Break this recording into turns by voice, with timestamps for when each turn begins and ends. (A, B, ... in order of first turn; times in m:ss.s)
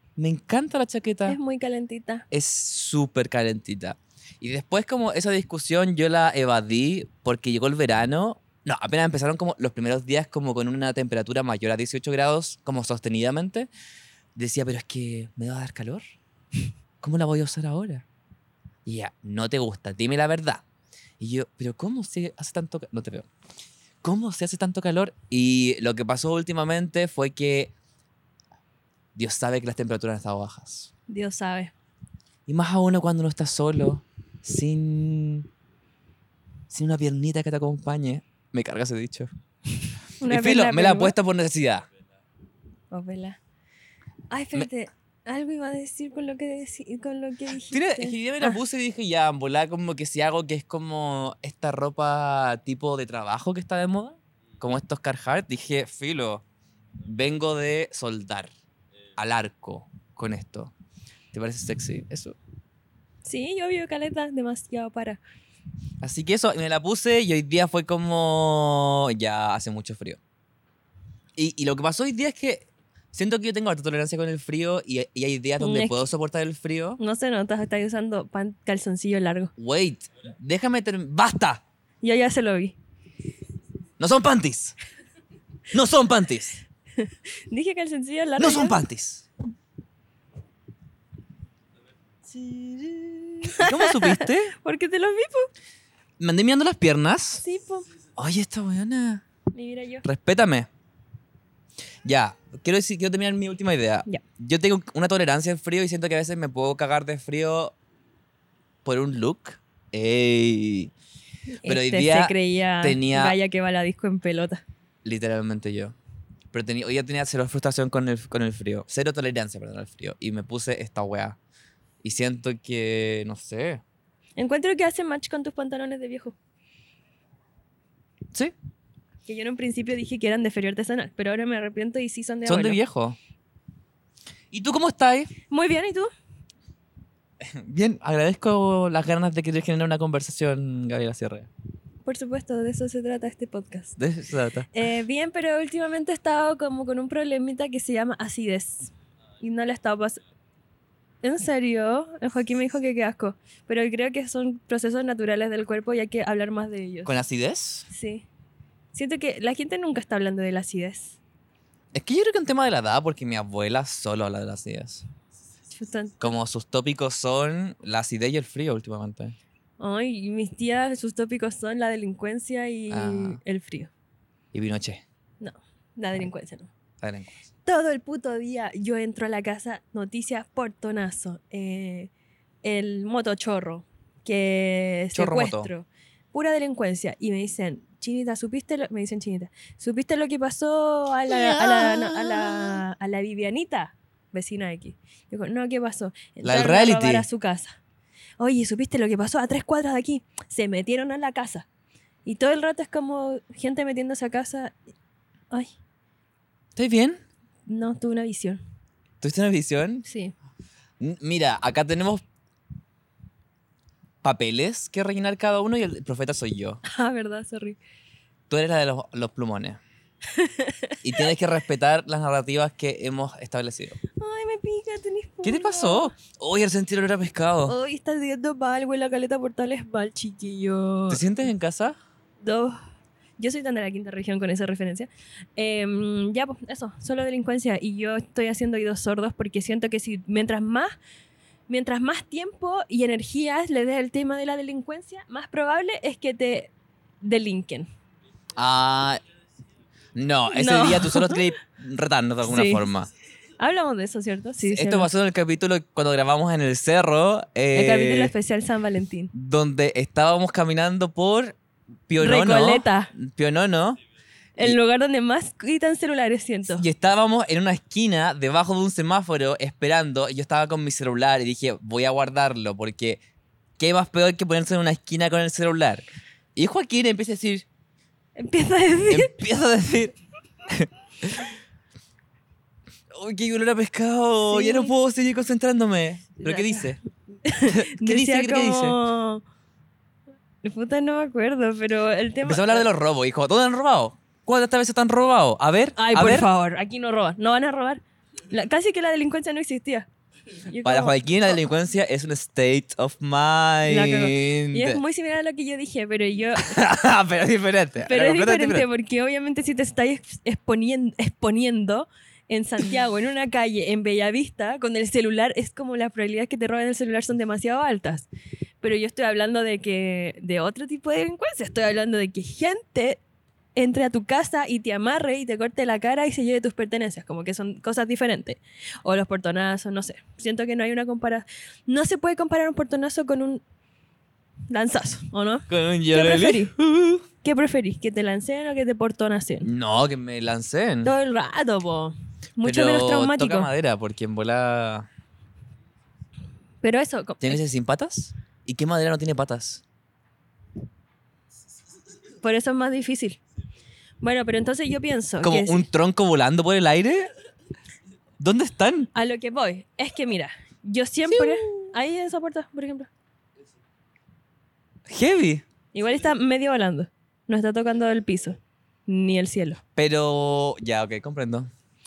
0:00.2-0:01.4 A
0:01.2-0:02.2 B
0:02.3-0:13.7 A
0:14.4-0:16.0 A
0:17.0-0:18.0 A
0:18.8-0:20.6 A
0:21.2-0:23.3 A
0:24.0-0:27.7 A
0:29.1-0:30.9 A
0:31.1-0:31.7 B
0:32.5-0:35.5 A
0:36.7-0:39.3 A
0:40.2-0:41.1 B
0:40.2-0:41.9 A
0:42.9-0:43.4 B
0:44.3-0:48.5 B
0:47.6-0:56.4 A
0:57.0-0:58.5 A
0:59.2-1:00.7 A
1:01.3-1:02.4 A
1:03.2-1:05.2 B
1:06.0-1:10.2 A
1:11.4-1:17.0 A
1:15.6-1:16.0 B
1:17.0-1:19.5 B
1:19.6-1:21.6 A
1:22.0-1:22.8 B
1:24.0-1:24.8 A
1:25.7-1:26.6 A
1:27.0-1:28.8 B
1:28.4-1:29.3 A
1:32.2-1:34.5 A
1:33.5-1:35.5 B
1:36.2-1:37.4 A
1:37.4-1:37.9 B
1:38.2-1:39.2 A
1:39.5-1:40.0 B
1:40.0-1:40.7 A
1:42.0-1:47.7 A
1:48.8-1:50.9 A
1:51.6-1:54.6 B
1:51.6-1:53.4 A
1:55.0-1:56.0 A
1:56.5-2:01.4 A
2:02.0-2:03.8 A
2:04.4-2:06.4 B
2:09.2-2:12.8 B
2:12.4-2:13.2 A
2:14.5-2:15.3 A
2:15.5-2:16.1 B
2:17.4-2:21.5 A
2:22.0-2:24.0 B
2:24.0-2:24.7 A
2:24.7-2:30.2 B
2:31.2-2:37.1 B
2:37.0-2:37.9 A
2:37.9-2:38.2 B
2:38.9-2:41.2 B
2:41.9-2:45.0 A
2:45.7-2:46.2 B
2:46.2-2:49.4 A
2:49.8-2:53.9 B
2:52.9-2:53.4 A
2:54.5-2:55.0 A
2:55.4-2:56.7 B
2:57.0-2:57.4 A
2:57.6-3:02.1 B
3:02.6-3:17.8 B
3:05.1-3:05.7 A
3:11.3-3:12.8 A
3:16.4-3:17.3 A
3:18.4-3:21.7 B
3:22.2-3:24.8 B
3:26.7-3:27.2 A
3:27.7-3:28.6 B
3:29.2-3:30.0 A
3:30.0-3:30.3 B
3:31.0-3:32.2 A
3:34.2-3:36.8 A
3:36.8-3:37.8 B
3:38.5-3:39.8 A
3:40.3-3:41.0 B
3:41.0-3:44.0 A
3:44.2-3:46.1 B
3:45.4-3:47.8 A
3:47.7-3:51.2 B
3:51.1-3:52.0 A
3:52.4-3:52.8 B
3:53.4-4:00.9 B
4:01.7-4:06.7 B
4:07.2-4:07.9 B
4:08.6-4:09.2 A
4:10.1-4:13.1 A
4:10.5-4:11.4 B
4:12.4-4:12.8 B
4:13.6-4:15.1 B
4:14.6-4:18.3 A
4:17.7-4:19.3 B
4:19.3-4:24.0 A
4:22.2-4:23.1 B
4:24.6-4:26.9 B
4:26.8-4:33.2 A
4:33.8-4:36.0 A
4:36.5-4:37.6 A
4:38.4-4:39.3 B
4:39.1-4:41.6 A
4:43.1-4:47.0 A
4:44.5-4:44.9 B
4:46.4-4:46.9 B
4:47.4-4:49.4 B
4:47.6-4:49.0 A
4:50.6-4:52.9 B
4:52.4-4:56.5 A
4:56.0-5:00.1 B
5:00.6-5:01.2 B
5:00.8-5:05.0 A
5:03.8-5:06.8 B
5:06.6-5:08.9 A
5:08.1-5:18.3 B
5:18.8-5:23.2 B
5:23.8-5:33.6 B
5:34.7-5:36.7 B
5:35.7-5:37.2 A
5:37.4-5:39.7 B
5:39.6-5:41.1 A
5:41.0-5:43.7 B
5:42.6-5:45.1 A
5:46.8-5:47.6 B
5:47.4-5:49.8 A
5:52.4-5:53.4 B
5:54.2-5:55.8 B
5:55.4-5:57.3 A
5:58.4-5:59.1 A
5:59.1-6:03.1 B
6:01.3-6:01.9 A
6:05.1-6:05.6 A
6:05.9-6:09.8 B
6:10.0-6:11.7 A